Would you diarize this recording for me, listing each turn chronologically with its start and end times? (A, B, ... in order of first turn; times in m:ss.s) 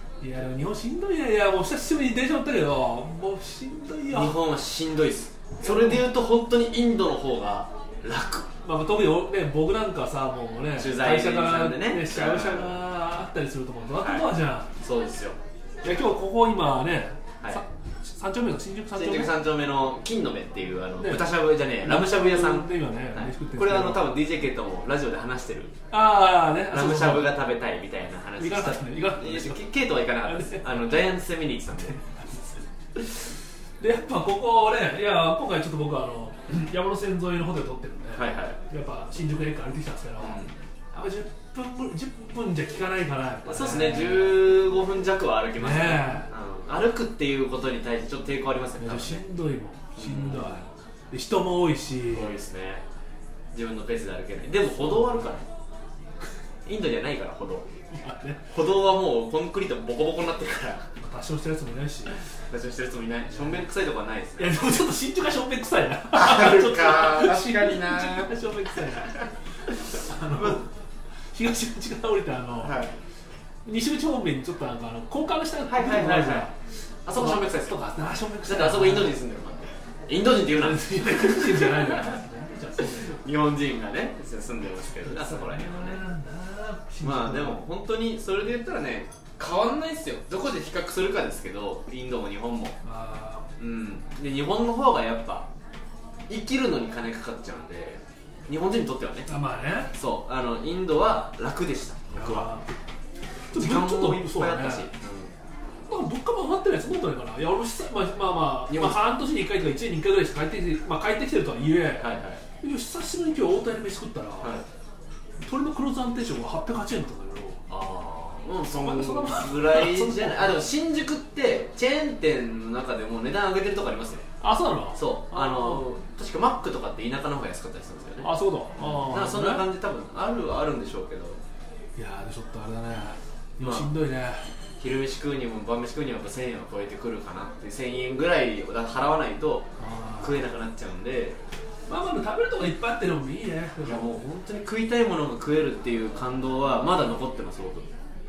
0:00.2-0:04.4 A
0:04.1-0:08.5 B
0:05.6-0:06.0 A
0:08.6-0:14.7 A
0:10.8-0:12.8 B
0:14.0-0:14.3 B
0:14.8-0:15.4 B
0:15.8-0:19.3 A
0:19.0-0:25.7 B
0:21.0-0:21.3 A
0:21.8-0:24.1 A
0:25.9-0:27.3 A
0:26.7-0:32.0 B
0:28.4-0:29.6 A
0:30.2-0:30.9 A
0:32.0-0:32.2 A
0:33.8-0:40.4 A
0:38.2-0:38.6 B
0:40.2-0:40.5 B
0:40.9-0:44.4 A
0:43.5-0:49.2 B
0:45.6-0:46.3 A
0:48.8-0:52.3 A
0:50.0-0:50.7 B
0:52.1-0:52.8 B
0:53.5-0:55.5 B
0:56.7-0:57.7 B
0:57.9-0:58.5 A
0:58.5-1:00.8 B
1:01.0-1:02.2 A
1:02.5-1:04.8 B
1:03.3-1:03.6 A
1:04.4-1:10.7 A
1:06.1-1:08.4 B
1:11.3-1:12.8 A
1:12.6-1:12.9 B
1:13.6-1:16.5 A
1:15.7-1:16.5 B
1:17.1-1:17.8 B
1:17.2-1:19.2 A
1:18.4-1:22.1 B
1:20.5-1:23.2 A
1:22.8-1:26.0 B
1:25.0-1:27.6 A
1:27.0-1:32.8 B
1:32.8-1:33.5 A
1:33.6-1:35.5 B
1:36.3-1:39.3 B
1:39.3-1:39.9 A
1:39.9-1:42.5 B
1:42.2-1:42.8 A
1:43.5-1:44.9 A
1:43.5-1:45.3 B
1:45.9-1:54.6 A
1:48.7-1:49.0 B
1:52.0-1:52.4 B
1:55.4-1:57.6 A
1:57.7-2:04.3 B
1:58.8-2:00.6 A
2:04.4-2:05.8 A
2:05.0-2:08.3 B
2:08.2-2:09.6 A
2:09.1-2:11.4 B
2:12.0-2:14.4 A
2:13.6-2:13.9 B
2:14.8-2:19.7 B
2:19.8-2:20.4 A
2:20.2-2:21.4 B
2:21.9-2:24.2 A
2:23.8-2:27.9 B